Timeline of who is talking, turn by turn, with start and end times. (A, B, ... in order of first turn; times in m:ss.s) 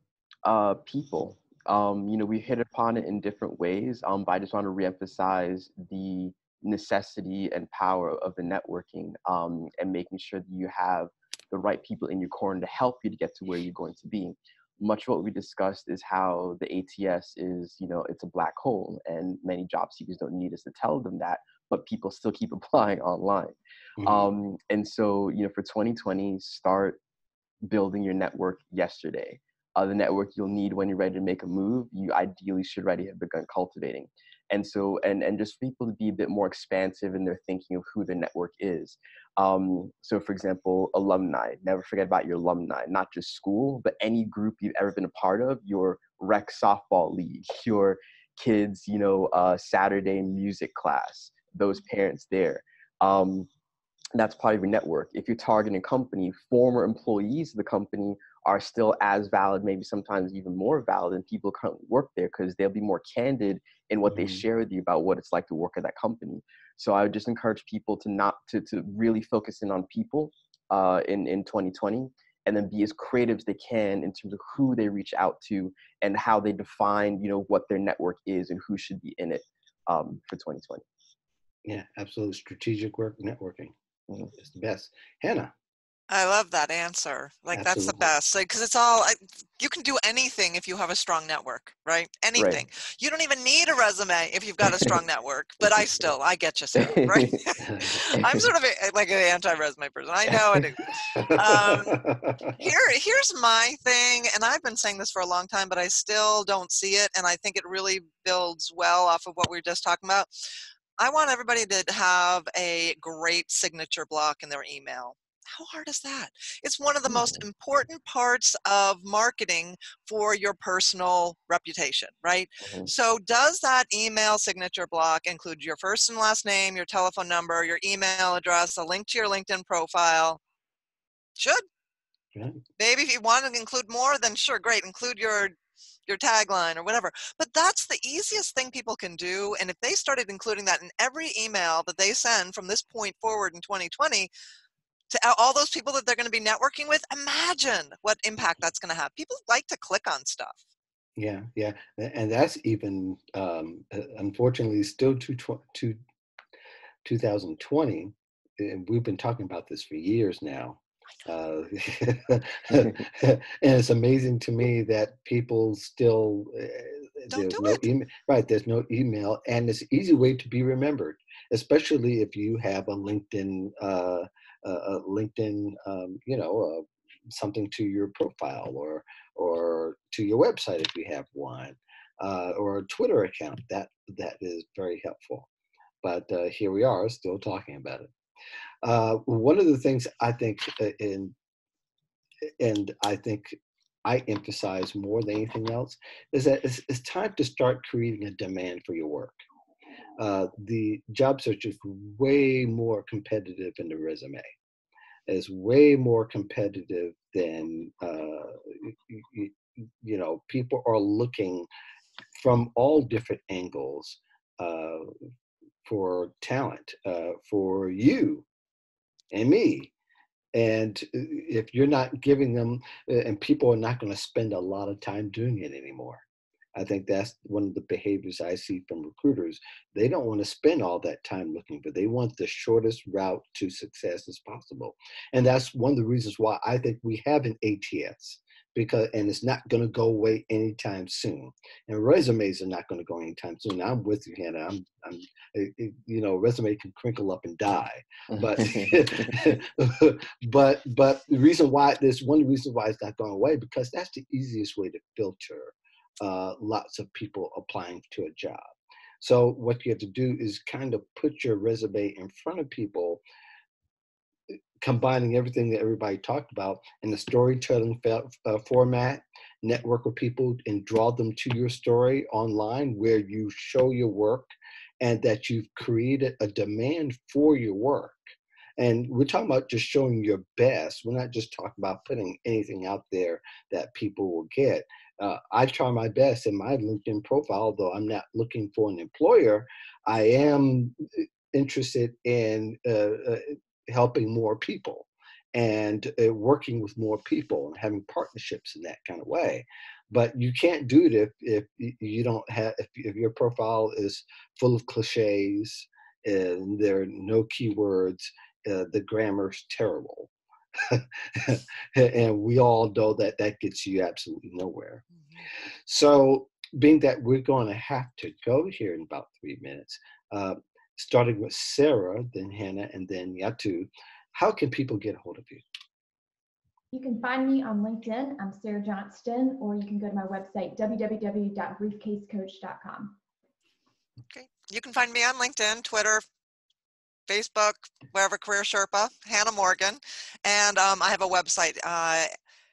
0:00.4-0:27.0 A
0:24.0-0:24.3 B
0:27.6-0:53.5 A
0:54.1-1:20.8 A
1:04.1-1:04.4 B
1:21.6-1:23.7 B
1:24.3-1:25.5 B
1:26.1-1:42.0 C
1:27.5-1:28.1 B
1:32.4-1:32.6 A
1:36.7-1:37.4 A
1:37.6-1:38.0 B
1:38.1-1:38.4 A
1:41.1-1:42.6 B
1:42.6-1:50.3 C
1:51.0-2:10.4 C
1:57.1-1:57.4 A
2:02.6-2:02.9 A
2:11.4-2:11.6 C
2:12.3-2:12.6 B
2:12.8-2:15.5 C
2:16.1-2:24.3 C
2:25.1-2:30.6 C
2:31.2-2:36.0 B
2:37.0-3:05.5 B
2:47.3-2:47.9 C
3:06.0-3:08.1 B
3:08.8-3:11.3 B
3:12.6-3:19.4 B
3:20.2-3:24.5 B
3:25.3-3:31.7 B
3:32.3-3:35.1 B
3:35.8-3:38.4 B
3:39.3-3:39.9 B
3:40.5-3:46.2 B
3:46.7-4:18.6 B
4:08.3-4:09.4 A
4:19.2-4:23.2 B
4:24.8-4:38.2 B
4:38.8-5:15.0 B
5:15.8-5:25.6 B
5:26.9-5:33.2 D
5:34.3-5:36.2 C
5:37.3-5:42.3 C